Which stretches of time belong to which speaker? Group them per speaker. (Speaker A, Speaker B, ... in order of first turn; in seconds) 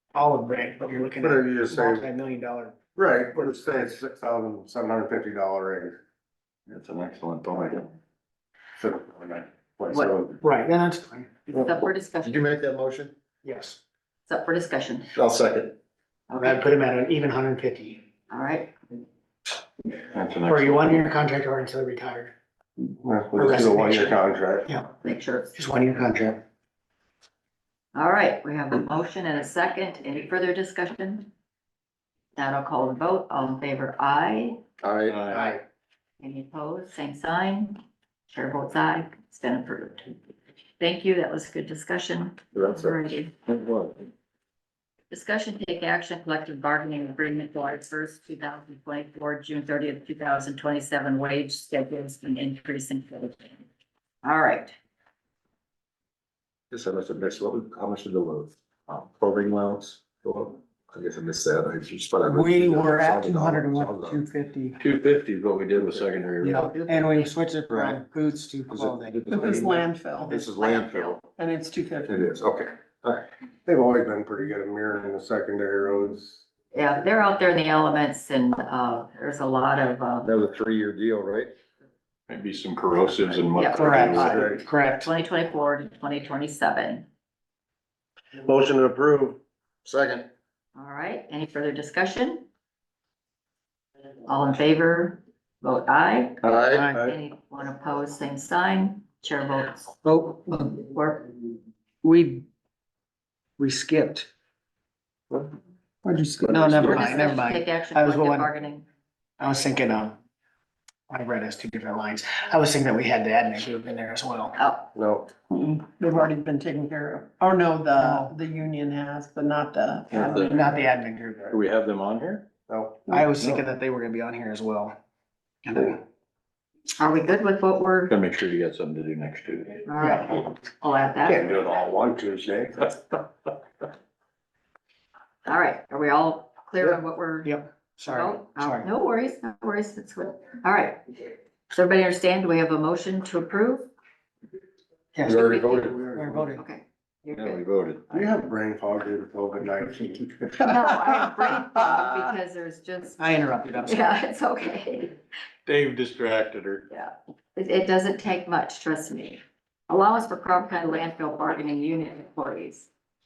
Speaker A: 0.1-2.8, 10.4-11.3, 13.4-13.8, 16.4-18.0, 20.4-22.3, 23.4-24.9, 25.6-26.4, 62.2-64.8, 66.4-69.4, 83.8-85.1, 96.6-97.0, 100.0-100.6, 102.0-102.5, 103.6-104.3, 106.4-108.5, 109.4-110.2, 111.1-114.6, 118.0-118.3, 120.2-121.5, 123.1-125.0, 125.7-126.0, 130.0-130.4, 137.4-138.9, 145.2-145.5, 146.2-146.7, 153.2-154.1
Speaker B: 1.2-2.1, 3.0-6.0, 8.8-10.4, 22.8-24.7, 34.8-35.6, 42.5-43.0, 73.7-76.5, 80.6-81.5, 84.1-84.6, 88.4-89.4, 106.5-106.9, 114.9-115.3, 122.7-123.1, 131.2-133.2, 145.3-146.5, 148.1-150.8
Speaker C: 6.7-7.9, 20.1-21.0, 35.0-35.5, 43.5-44.0, 64.8-66.8, 70.3-71.2, 82.3-84.5, 106.7-107.2, 120.1-120.7, 121.5-122.5, 128.1-129.8, 147.3-148.2, 155.7-156.9
Speaker D: 11.5-12.4, 14.3-15.1, 16.3-16.6, 18.3-18.7, 25.0-25.6, 27.9-31.3, 32.4-34.6, 36.2-40.1, 40.8-43.3, 45.1-53.6, 54.2-54.7, 66.7-67.3, 70.5-71.2, 76.7-80.3, 83.5-87.1, 90.8-92.5, 94.3-100.0, 100.5-101.3, 106.8-108.9, 114.5-114.9, 127.0-128.2, 129.8-131.5, 135.4-137.5, 138.1-141.2, 141.7-143.9, 145.3-146.0, 146.5-147.6, 150.6-155.2, 156.9-162.9
Speaker E: 12.2-13.1, 15.2-15.7, 56.7-64.2, 68.7-69.7, 72.2-73.2, 80.2-81.5, 89.8-90.3, 96.4-96.9
Speaker F: 69.3-70.5, 71.4-72.4, 106.0-106.7, 115.5-120.5